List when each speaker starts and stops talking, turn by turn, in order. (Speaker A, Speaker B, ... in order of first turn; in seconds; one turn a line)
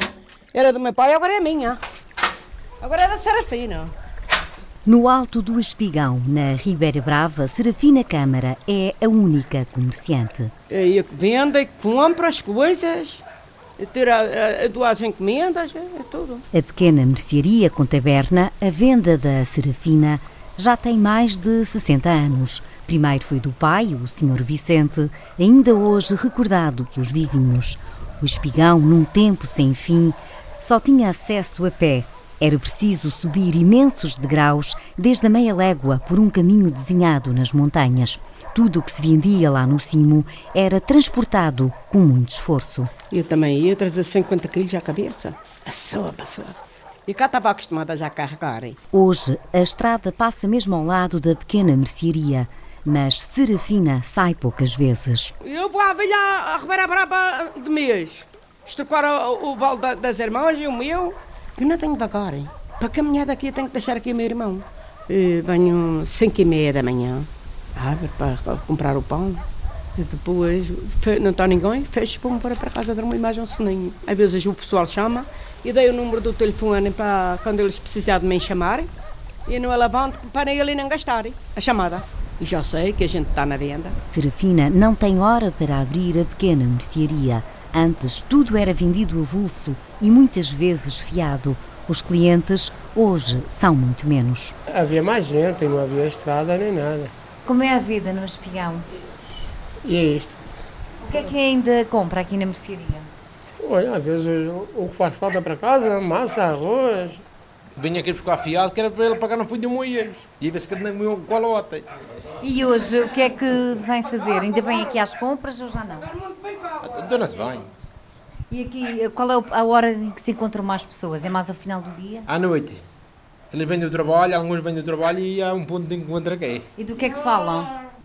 Speaker A: 0.5-1.8
Speaker A: 2.8-4.0
Speaker B: 4.8-10.5
Speaker A: 10.7-13.2
Speaker A: 13.8-16.4
Speaker B: 16.5-42.9
Speaker A: 43.1-48.8
Speaker B: 48.9-55.3
Speaker A: 55.4-69.4
Speaker A: 70.0-78.9
Speaker A: 79.5-84.0
Speaker B: 84.1-94.5
Speaker C: 94.7-97.1
Speaker D: 97.5-98.8
Speaker C: 99.8-100.4
Speaker D: 101.0-103.0
Speaker C: 103.6-107.2
Speaker E: 107.8-111.9
Speaker D: 112.4-115.9
Speaker A: 114.1-115.0
Speaker A: 115.9-117.5
Speaker E: 116.8-117.7
Speaker D: 118.5-122.2
Speaker E: 122.3-122.8
Speaker E: 123.5-126.7
Speaker D: 126.8-127.7